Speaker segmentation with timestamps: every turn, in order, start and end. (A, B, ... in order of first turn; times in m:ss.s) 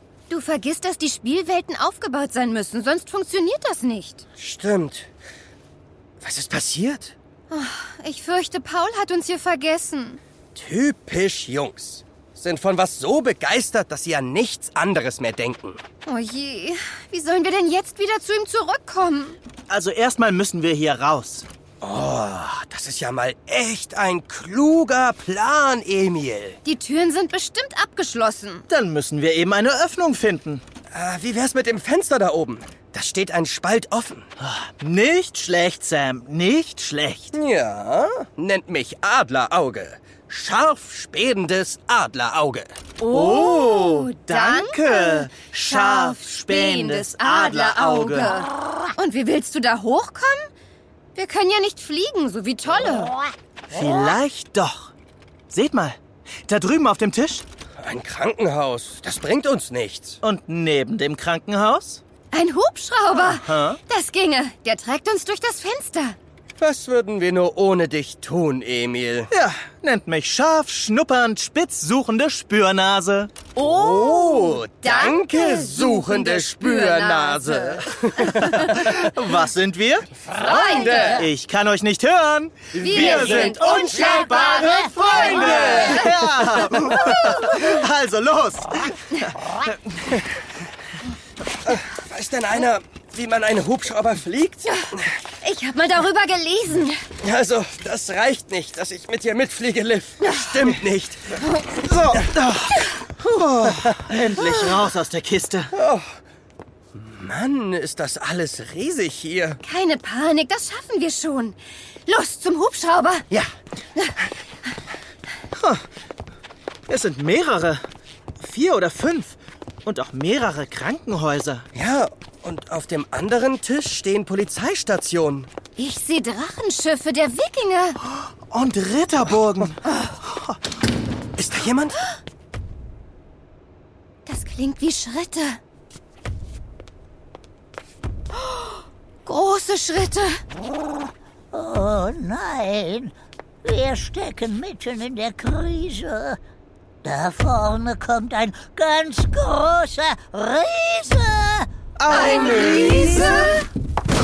0:00.3-0:04.2 A
0:04.4-0:05.1 B
0:06.2-0:07.1 B
0:07.5-0:10.2 A
0:10.5-0:15.8 B
0:16.0-0:19.4 A
0:19.7-0:21.5 C
0:21.8-0:26.6 B
0:26.6-0:28.6 A
0:28.7-0:30.6 C
0:30.9-0:34.3 B
0:34.4-0:37.3 C
0:37.3-0:42.7 B
0:43.0-0:50.5 A
0:43.0-0:48.3 C
0:51.1-0:53.2 A
0:53.7-0:54.9 C
0:55.5-0:57.4 C
0:57.8-1:00.2 B
1:00.2-1:02.0 C
1:02.3-1:06.2 A
1:03.4-1:03.8 C
1:06.6-1:09.3 B
1:09.3-1:13.3 C
1:13.6-1:18.6 A
1:13.6-1:18.6 B
1:18.6-1:20.1 C
1:20.4-1:21.2 A
1:20.5-1:21.2 B
1:21.1-1:29.7 C
1:22.8-1:24.5 B
1:22.8-1:26.1 A
1:25.2-1:26.0 B
1:26.9-1:27.4 A
1:31.7-1:34.7 B
1:35.4-1:37.0 A
1:37.2-1:41.3 B
1:41.8-1:45.7 C
1:45.7-1:46.2 B
1:47.0-1:49.6 B
1:49.6-1:51.6 A
1:52.1-1:53.3 A
1:55.6-1:55.8 C
1:56.9-1:57.8 C
1:58.4-2:01.6 C
2:01.7-2:05.5 B
2:05.8-2:08.0 A
2:08.5-2:10.6 C
2:11.4-2:12.0 B
2:14.2-2:15.6 A
2:18.4-2:18.7 A
2:19.2-2:20.4 A
2:21.5-2:23.1 D
2:23.6-2:26.4 D
2:27.0-2:31.7 D
2:32.0-2:33.6 C
2:32.1-2:33.6 A